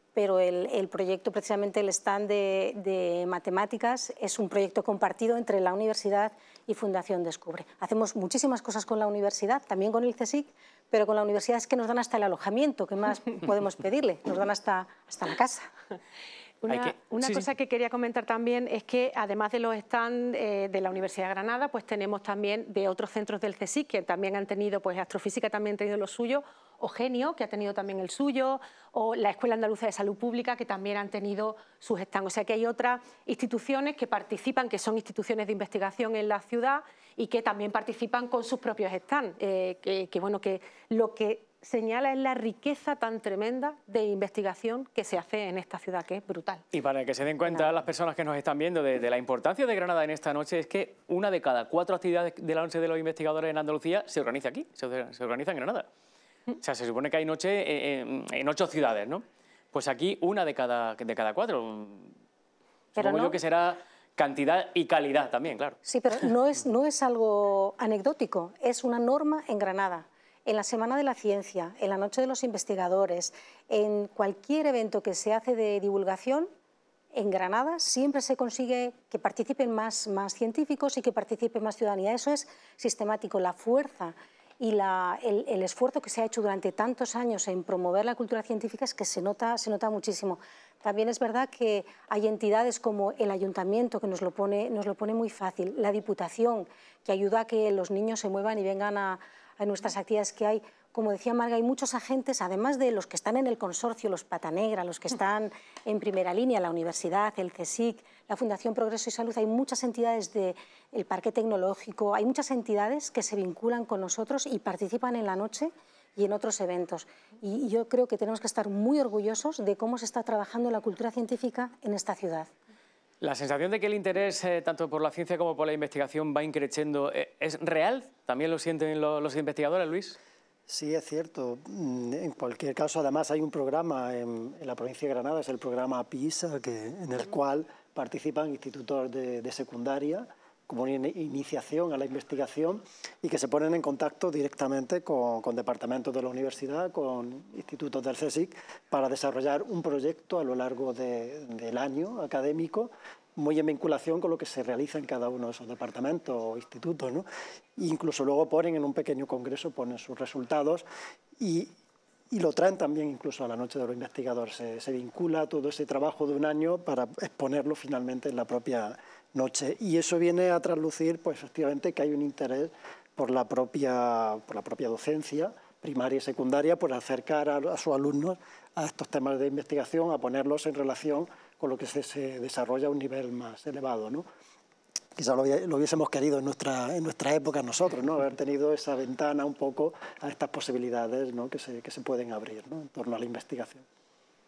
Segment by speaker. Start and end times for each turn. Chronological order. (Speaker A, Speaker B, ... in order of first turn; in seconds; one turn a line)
Speaker A: 0.1-15.7
Speaker B: 16.6-46.6
Speaker C: 16.7-17.5
Speaker C: 46.7-55.9
Speaker C: 56.6-62.1
Speaker A: 63.0-63.4
Speaker C: 63.0-65.8
Speaker A: 65.9-76.5
Speaker A: 77.1-122.5
Speaker C: 123.2-130.2
Speaker D: 130.7-160.8
Speaker D: 161.4-161.7
Speaker D: 162.3-184.3
Speaker D: 185.2-193.8